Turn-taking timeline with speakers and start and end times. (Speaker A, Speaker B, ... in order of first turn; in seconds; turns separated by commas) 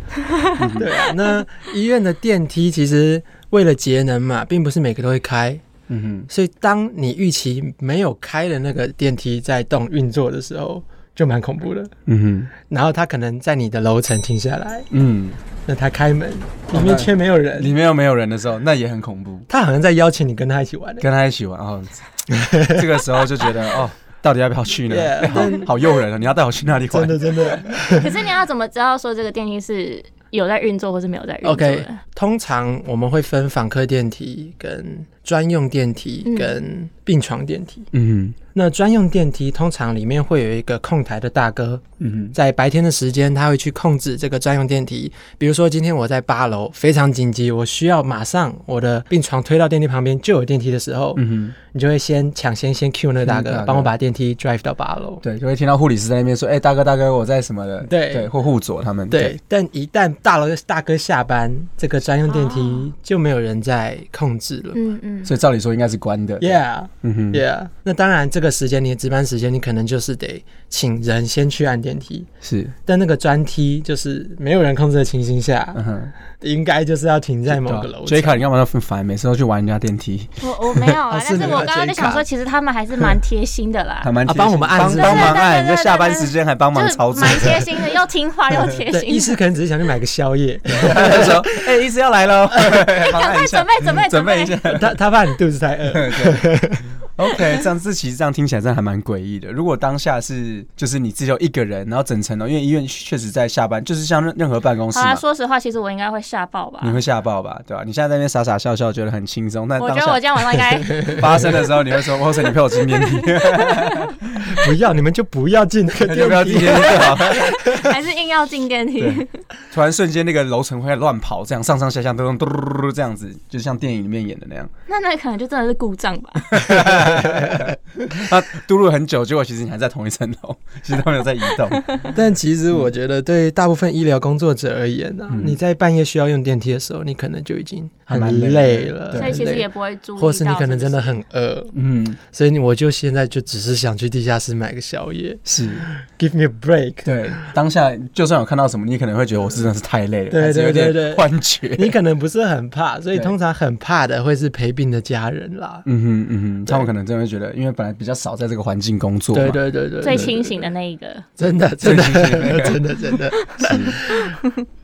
Speaker A: 0.3-0.6, Speaker B: 0.6-0.9, Speaker C: 0.8-5.6, Speaker B: 5.9-6.3, Speaker C: 6.3-11.9, Speaker B: 12.1-12.5, Speaker C: 12.6-14.9, Speaker B: 14.9-15.4, Speaker C: 15.7-17.7, Speaker B: 16.7-19.5, Speaker C: 19.5-21.1, Speaker B: 21.0-27.7, Speaker C: 22.3-23.1, Speaker C: 24.9-25.7, Speaker C: 26.9-28.1, Speaker A: 27.8-32.0, Speaker C: 31.4-37.9, Speaker A: 36.2-36.5, Speaker B: 37.9-38.4, Speaker C: 38.5-55.2, Speaker B: 42.0-42.3, Speaker B: 51.1-51.5, Speaker B: 53.2-53.9, Speaker B: 55.2-59.4, Speaker C: 57.8-58.3, Speaker C: 59.1-64.8, Speaker A: 62.3-62.9, Speaker A: 64.7-65.3, Speaker B: 65.2-67.4, Speaker C: 66.4-72.3, Speaker B: 72.4-72.7, Speaker C: 72.8-75.8, Speaker B: 75.7-76.1, Speaker C: 76.4-78.4, Speaker B: 77.5-81.0, Speaker A: 80.4-84.1, Speaker C: 81.1-82.2, Speaker B: 84.0-87.7, Speaker C: 84.2-85.4, Speaker A: 84.8-89.4, Speaker C: 88.9-91.5, Speaker B: 90.7-95.0, Speaker A: 92.9-94.6, Speaker C: 94.7-96.9, Speaker B: 95.9-96.4, Speaker B: 97.2-105.2, Speaker A: 104.9-107.0, Speaker B: 106.8-114.1, Speaker A: 109.8-111.2, Speaker A: 113.6-113.9, Speaker C: 114.5-117.4, Speaker B: 116.0-117.6, Speaker A: 116.8-119.4, Speaker B: 119.0-124.7, Speaker A: 124.9-126.6, Speaker B: 126.5-132.0, Speaker C: 127.0-127.6, Speaker C: 132.1-141.7, Speaker B: 135.3-135.6, Speaker B: 138.1-139.4, Speaker A: 139.2-141.2, Speaker B: 141.7-142.2, Speaker C: 142.3-147.5, Speaker B: 145.5-145.8, Speaker B: 147.0-151.9, Speaker C: 150.3-155.8, Speaker B: 155.8-159.6, Speaker C: 159.3-160.7, Speaker A: 160.0-161.2, Speaker C: 161.4-164.3, Speaker B: 161.8-162.8, Speaker B: 163.6-163.9, Speaker A: 164.3-164.6